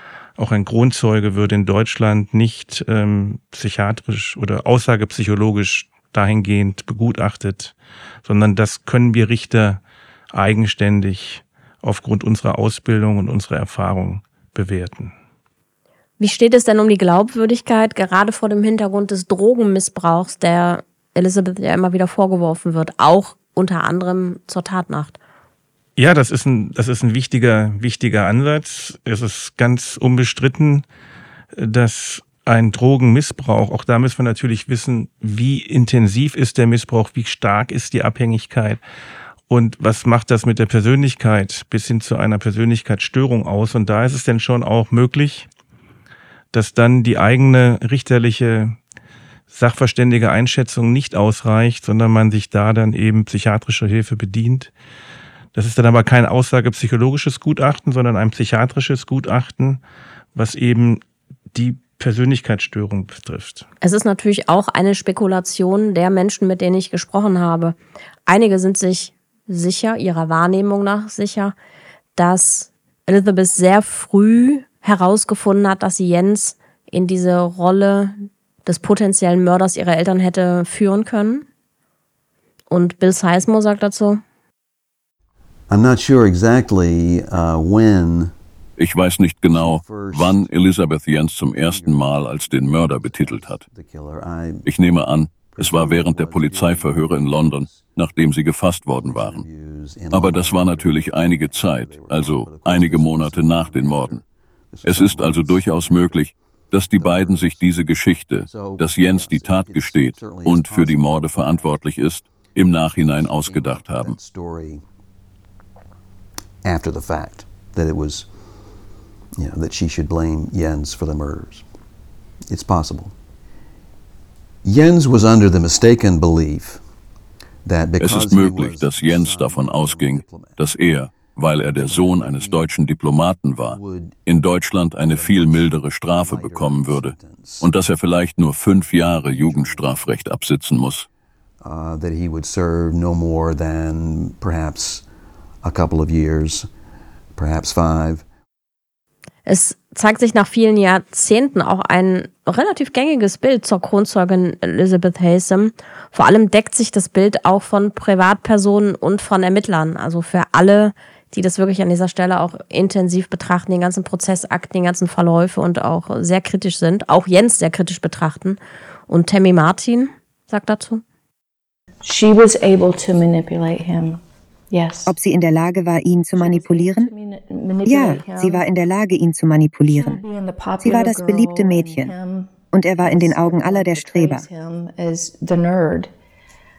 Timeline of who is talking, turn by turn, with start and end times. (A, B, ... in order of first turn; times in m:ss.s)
0:00.4-0:09.8 A
0:10.3-0:15.1 A
0:16.2-0:25.2 B
0:26.0-0:30.8 A
0:31.5-0:38.8 A
0:39.5-0:45.5 A
0:46.5-0:48.8 A
0:49.5-0:54.7 A
0:55.5-0:59.8 A
1:00.3-1:01.0 A
1:01.5-1:03.6 A
1:03.8-1:11.5 B
1:12.2-1:21.4 B
1:22.7-1:24.2 B
1:25.7-1:28.3 C
1:28.8-1:33.6 D
1:29.5-1:30.8 C
1:31.4-1:34.7 C
1:34.6-1:39.4 D
1:35.4-1:38.2 C
1:38.9-1:47.9 C
1:40.1-1:44.2 D
1:44.8-1:54.2 D
1:48.4-1:51.8 C
1:52.8-1:54.8 C
1:56.6-1:58.3 C
1:59.4-2:01.6 C
2:02.5-2:03.1 C
2:04.6-2:06.8 C
2:07.6-2:10.9 C
2:08.0-2:21.0 D
2:11.7-2:13.0 C
2:13.6-2:14.3 C
2:15.0-2:17.7 C
2:18.7-2:20.3 C
2:21.6-2:25.0 C
2:25.6-2:26.7 C
2:27.3-2:28.2 C
2:29.4-2:51.0 B
2:52.0-2:55.1 E
2:55.0-2:57.1 F
2:56.3-2:58.6 E
2:57.8-3:00.2 F
2:59.9-3:06.1 E
3:00.8-3:02.1 F
3:02.7-3:04.4 F